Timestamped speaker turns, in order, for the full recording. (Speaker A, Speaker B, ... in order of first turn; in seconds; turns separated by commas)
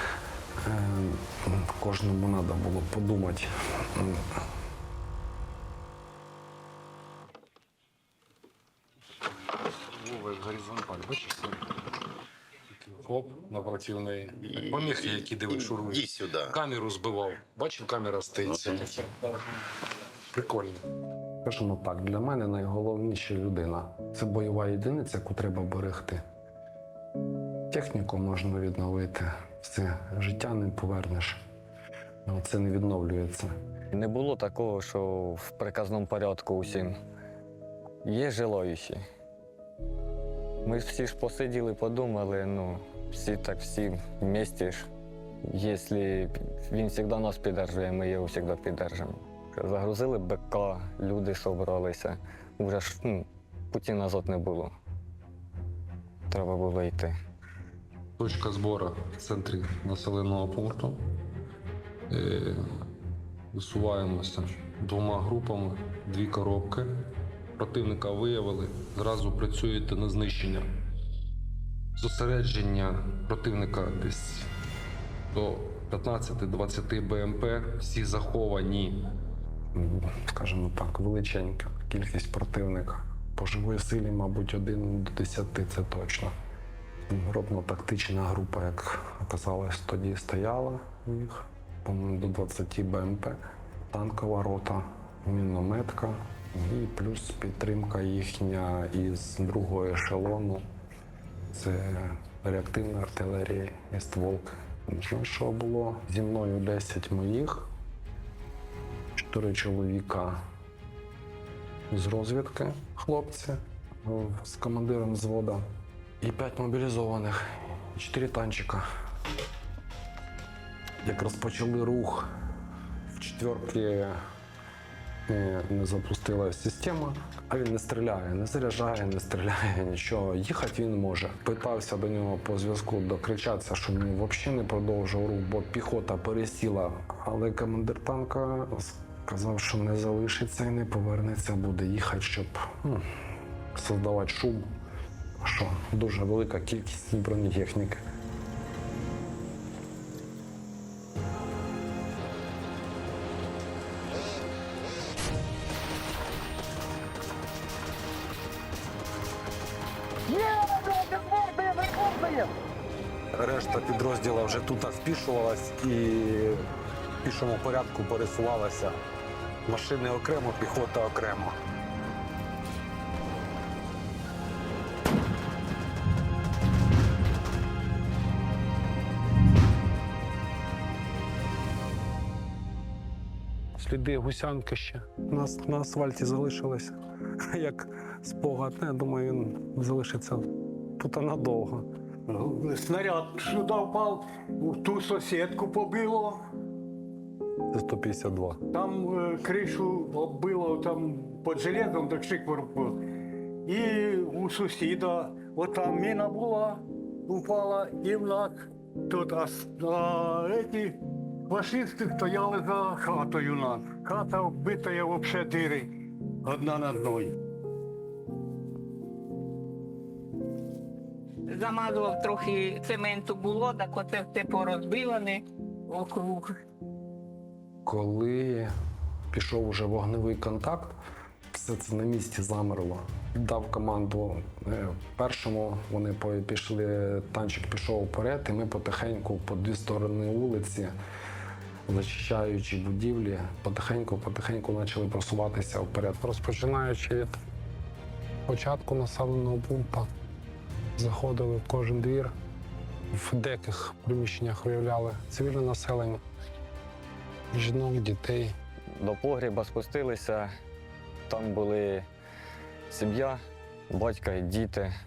Speaker A: 0.6-4.4, Speaker A: 10.0-11.6, Speaker A: 12.9-15.9, Speaker B: 14.8-16.6, Speaker A: 16.5-19.3, Speaker A: 20.3-20.8, Speaker A: 21.4-26.2, Speaker A: 27.7-31.4, Speaker A: 32.2-33.5, Speaker C: 33.9-36.9, Speaker C: 38.0-39.0, Speaker C: 40.6-44.9, Speaker C: 45.5-54.7, Speaker C: 56.3-57.1, Speaker B: 58.2-61.0, Speaker B: 62.1-62.6, Speaker B: 63.5-66.9, Speaker B: 67.6-70.7, Speaker B: 72.0-74.5, Speaker B: 75.3-79.0, Speaker A: 79.7-86.3, Speaker A: 87.1-93.4, Speaker A: 93.9-100.6, Speaker A: 101.5-107.7, Speaker A: 109.2-110.4, Speaker A: 111.9-115.6, Speaker A: 116.2-118.8, Speaker A: 121.0-122.3, Speaker A: 123.1-124.2, Speaker A: 125.3-143.0, Speaker A: 143.7-144.7, Speaker A: 145.4-148.0, Speaker D: 161.7-162.5, Speaker A: 163.3-166.6, Speaker A: 167.2-169.0, Speaker A: 169.7-171.6, Speaker A: 183.8-186.9, Speaker A: 187.5-190.4, Speaker A: 191.0-191.8, Speaker D: 192.3-196.4, Speaker A: 197.7-198.6, Speaker D: 198.7-203.0, Speaker D: 203.7-215.9, Speaker D: 216.4-217.3, Speaker E: 221.5-226.5, Speaker A: 227.8-228.7, Speaker A: 229.3-230.9, Speaker A: 231.5-240.9, Speaker A: 241.9-247.3, Speaker A: 248.5-250.1, Speaker A: 250.9-252.3, Speaker A: 253.1-256.2, Speaker A: 257.5-258.5, Speaker C: 258.9-260.5, Speaker C: 261.3-262.1, Speaker C: 262.9-264.9